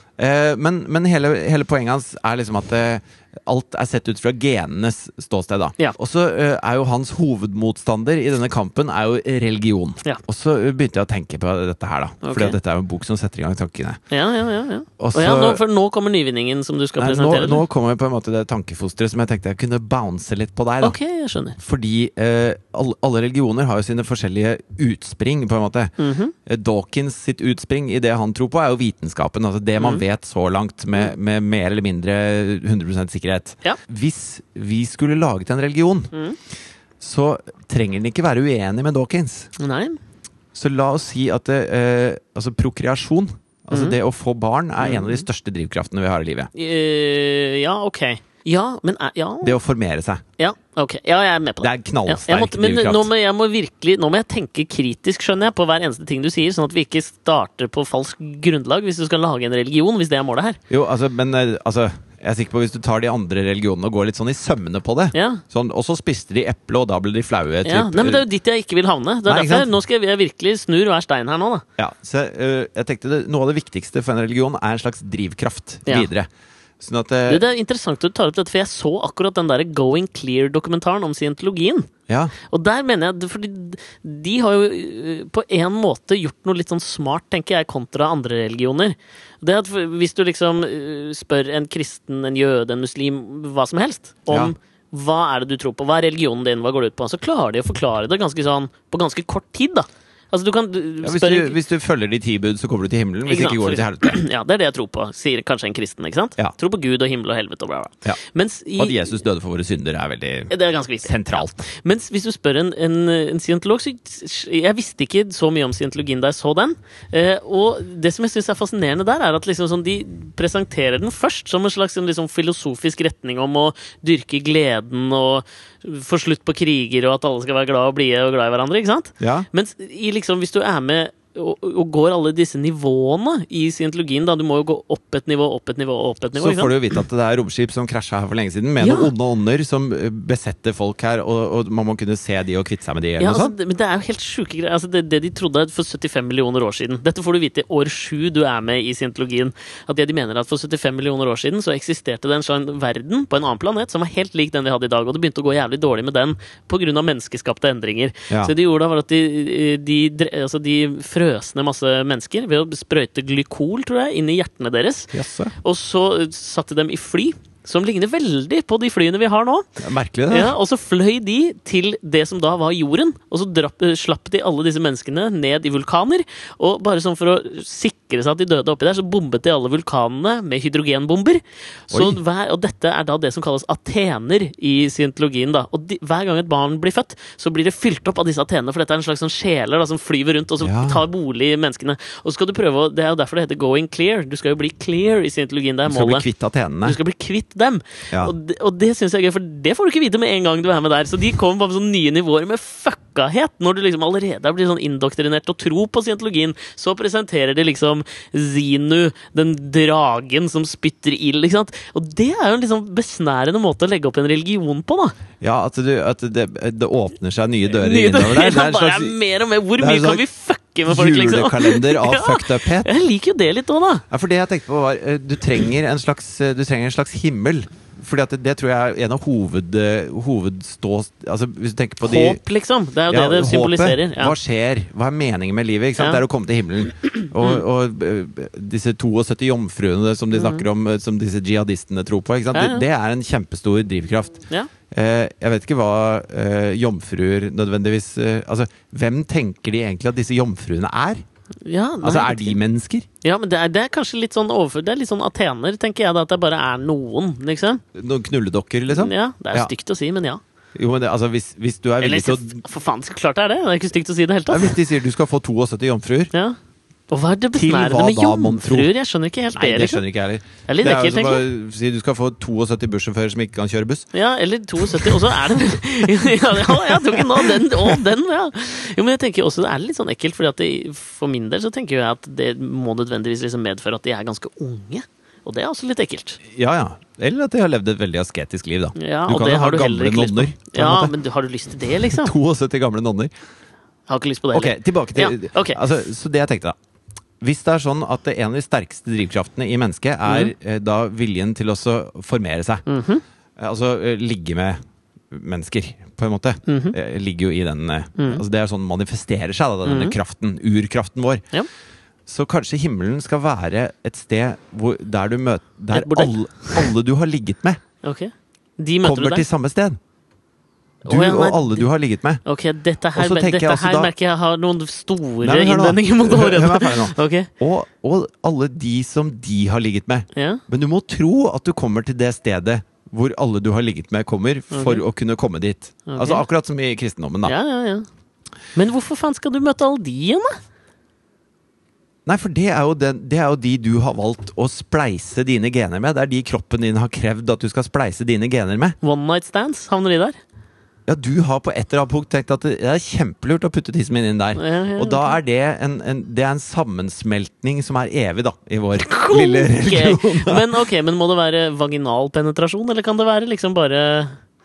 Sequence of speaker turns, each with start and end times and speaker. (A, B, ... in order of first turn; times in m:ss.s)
0:00.2-0:14.0 A
0:12.2-0:12.6 B
0:14.1-0:17.6 B
0:15.0-0:15.6 A
0:17.0-0:21.0 A
0:20.8-0:21.6 B
0:21.6-0:25.9 A
0:26.0-0:26.3 B
0:26.4-0:36.1 A
0:29.8-0:30.0 B
0:37.0-0:39.5 A
0:39.6-0:40.0 B
0:40.5-0:46.5 A
0:43.7-0:44.0 B
0:44.8-0:45.2 B
0:46.5-0:49.6 B
0:49.4-0:50.2 A
0:50.4-1:00.6 B
0:51.6-0:53.1 A
1:00.7-1:08.2 A
1:05.1-1:05.4 B
1:07.6-1:11.6 B
1:09.3-1:09.7 A
1:11.8-1:16.3 A
1:16.8-1:17.4 A
1:17.3-1:21.9 B
1:22.1-1:22.3 A
1:22.5-1:41.6 B
1:34.3-1:34.5 A
1:41.0-1:44.2 A
1:43.2-1:49.1 B
1:48.8-1:50.5 A
1:50.5-2:16.7 B
1:51.0-1:51.6 A
2:09.2-2:09.5 A
2:16.4-2:23.5 A
2:18.8-2:19.1 B
2:23.2-2:49.7 B
2:45.1-2:45.5 A
2:49.8-2:50.5 A
2:50.3-3:16.2 B
3:01.9-3:02.2 A
3:10.6-3:11.0 A
3:15.9-3:17.0 A
3:16.8-3:35.2 B
3:35.4-3:39.2 A
3:37.7-3:44.0 B
3:39.8-3:40.2 A
3:40.8-3:42.9 A
3:44.1-3:52.4 A
3:52.0-3:54.3 B
3:53.1-4:11.2 A
4:00.3-4:00.6 B
4:02.5-4:02.8 B
4:11.6-4:12.6 B
4:12.0-4:13.0 A
4:13.2-4:17.8 B
4:17.9-4:19.7 A
4:18.9-4:20.4 B
4:20.7-4:22.6 A
4:22.0-4:24.8 B
4:24.5-4:26.3 A
4:27.1-4:30.0 B
4:27.5-4:28.9 A
4:29.5-4:34.1 A
4:30.7-4:31.4 B
4:34.1-4:46.4 B
4:34.8-4:35.3 A
4:36.0-4:38.0 A
4:46.5-4:51.1 A
4:48.9-4:52.3 B
4:51.9-4:53.3 A
4:54.1-4:55.8 B
4:54.5-4:56.8 A
4:57.4-5:02.8 A
5:00.2-5:00.5 B
5:02.8-5:03.2 B
5:03.6-5:04.8 A
5:05.3-5:11.4 A
5:06.7-5:07.0 B
5:08.2-5:08.4 B
5:09.8-5:10.2 B
5:12.3-5:17.8 A
5:15.9-5:16.9 B
5:18.0-5:19.4 B
5:19.0-5:20.0 A
5:21.0-5:21.9 B
5:21.1-5:22.4 A
5:22.4-5:27.5 B
5:23.2-5:24.1 A
5:25.4-5:37.6 A
5:30.3-5:30.6 B
5:34.7-5:35.0 B
5:36.1-5:36.4 B
5:37.4-5:38.0 B
5:38.7-5:40.6 B
5:42.2-5:49.0 A
5:49.0-5:50.4 B
5:51.1-6:00.7 A
5:54.6-5:55.4 B
5:59.1-6:04.4 B